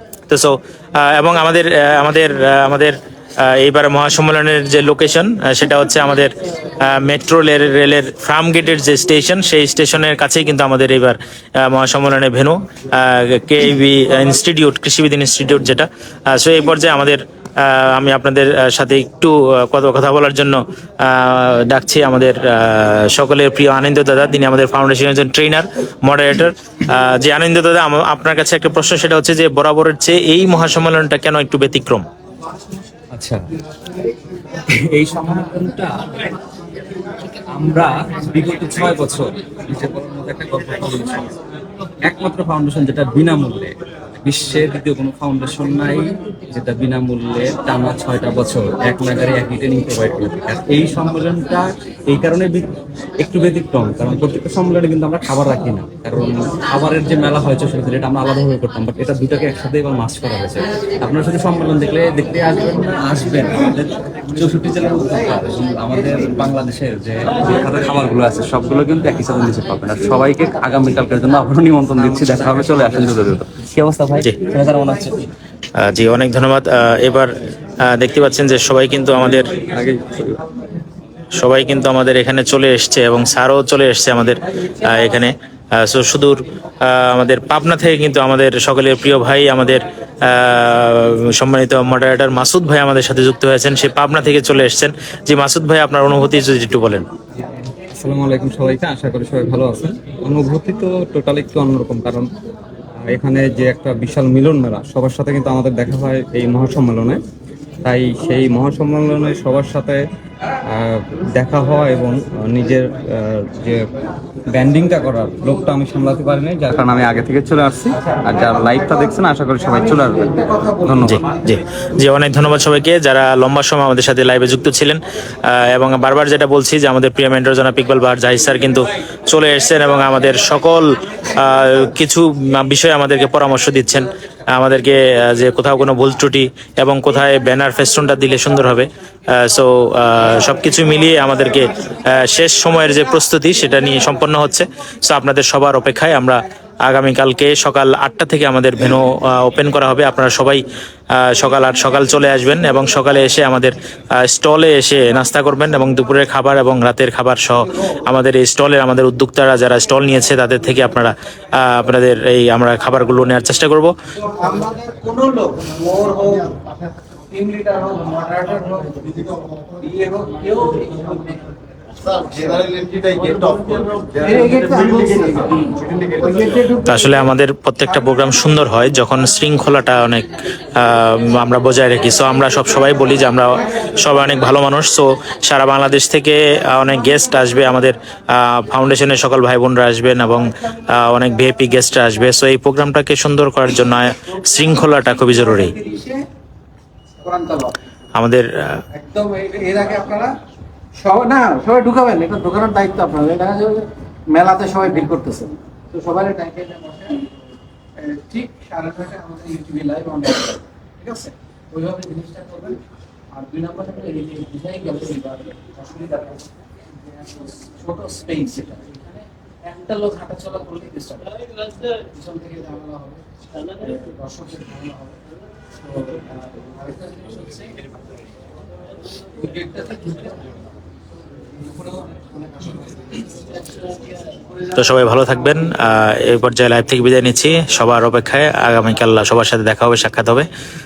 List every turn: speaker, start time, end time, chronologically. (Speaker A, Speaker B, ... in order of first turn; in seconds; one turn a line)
Speaker A: 0.3-32.1
Speaker B: 33.1-33.5
Speaker B: 34.7-36.4
Speaker B: 37.5-41.4
Speaker B: 42.0-75.3
Speaker A: 75.8-77.3
Speaker A: 77.9-79.5
Speaker B: 79.7-80.4
Speaker A: 81.4-97.1
Speaker B: 97.9-102.3
Speaker B: 103.0-107.2
Speaker B: 107.8-110.0
Speaker B: 110.7-113.9
Speaker B: 114.5-121.2
Speaker C: 118.3-119.1
Speaker C: 119.7-121.0
Speaker A: 121.0-150.6
Speaker A: 151.2-163.9
Speaker C: 164.2-166.6
Speaker C: 167.3-172.8
Speaker C: 174.2-176.9
Speaker A: 176.8-195.7
Speaker C: 195.2-196.2
Speaker C: 197.2-197.8
Speaker A: 198.2-198.5
Speaker C: 198.9-200.3
Speaker C: 201.0-207.3
Speaker C: 208.0-212.8
Speaker C: 213.3-221.3
Speaker C: 221.9-227.8
Speaker C: 229.4-230.6
Speaker C: 231.6-234.8
Speaker A: 234.8-240.5